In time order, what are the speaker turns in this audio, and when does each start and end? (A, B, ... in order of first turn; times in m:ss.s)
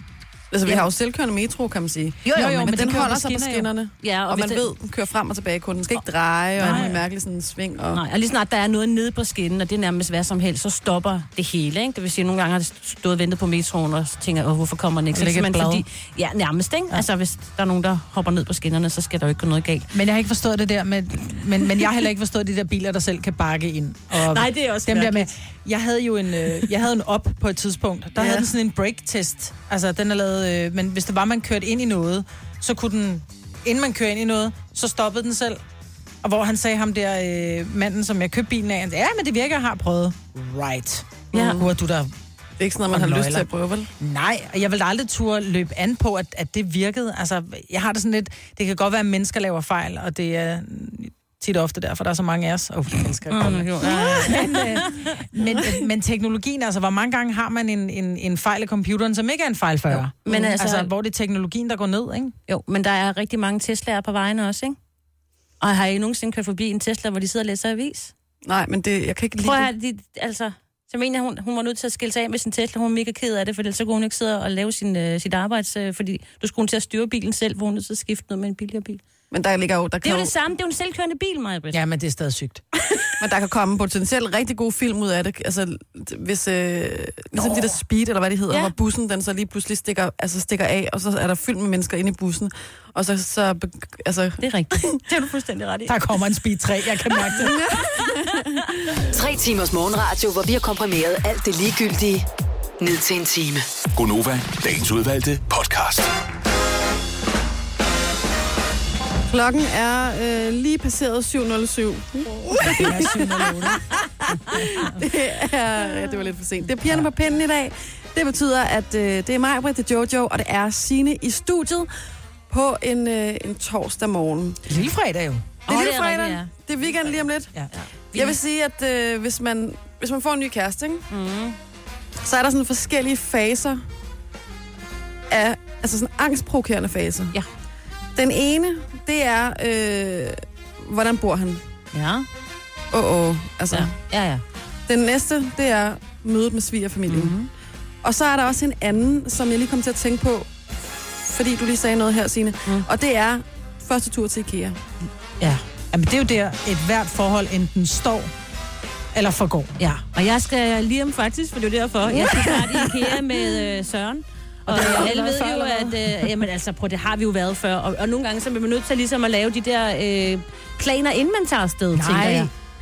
0:00.5-0:08.0 A
0:02.3-0:03.7 B
0:04.0-0:04.7 C
0:06.6-0:07.0 B
0:06.6-0:06.9 C
0:07.9-0:19.9 C
0:15.1-0:15.8 B
0:19.9-0:35.6 B
0:24.1-0:25.3 C
0:36.2-0:42.1 B
0:41.3-0:41.6 C
0:41.3-0:41.7 A
0:42.6-0:43.9 A
0:42.9-0:43.5 B
0:44.0-1:02.4 B
0:53.3-0:55.1 C
1:00.2-1:00.9 C
1:02.5-1:04.8 C
1:05.6-1:08.1 C
1:08.4-1:09.7 A
1:09.4-1:19.0 C
1:19.3-1:20.3 A
1:20.0-1:21.8 C
1:21.7-1:22.6 B
1:23.2-1:35.0 A
1:34.4-1:36.0 C
1:35.9-1:37.7 B
1:37.3-1:38.6 A
1:39.1-1:42.3 D
1:42.8-1:43.6 D
1:43.9-1:46.1 E
1:49.3-2:01.9 A
1:52.6-1:55.0 B
2:02.5-2:04.6 A
2:04.7-2:05.5 B
2:05.6-2:06.5 C
2:05.7-2:07.5 A
2:07.7-2:08.4 C
2:08.1-2:11.0 A
2:11.1-2:11.6 C
2:12.2-2:13.8 A
2:15.3-2:17.3 A
2:18.2-2:21.6 A
2:21.9-2:22.3 C
2:22.9-2:23.9 A
2:23.7-2:24.4 C
2:24.9-2:27.4 A
2:27.1-2:27.5 C
2:28.0-2:34.8 A
2:35.9-2:38.3 B
2:39.1-2:39.8 B
2:39.8-2:52.5 C
2:44.7-2:46.3 B
2:51.9-2:52.5 B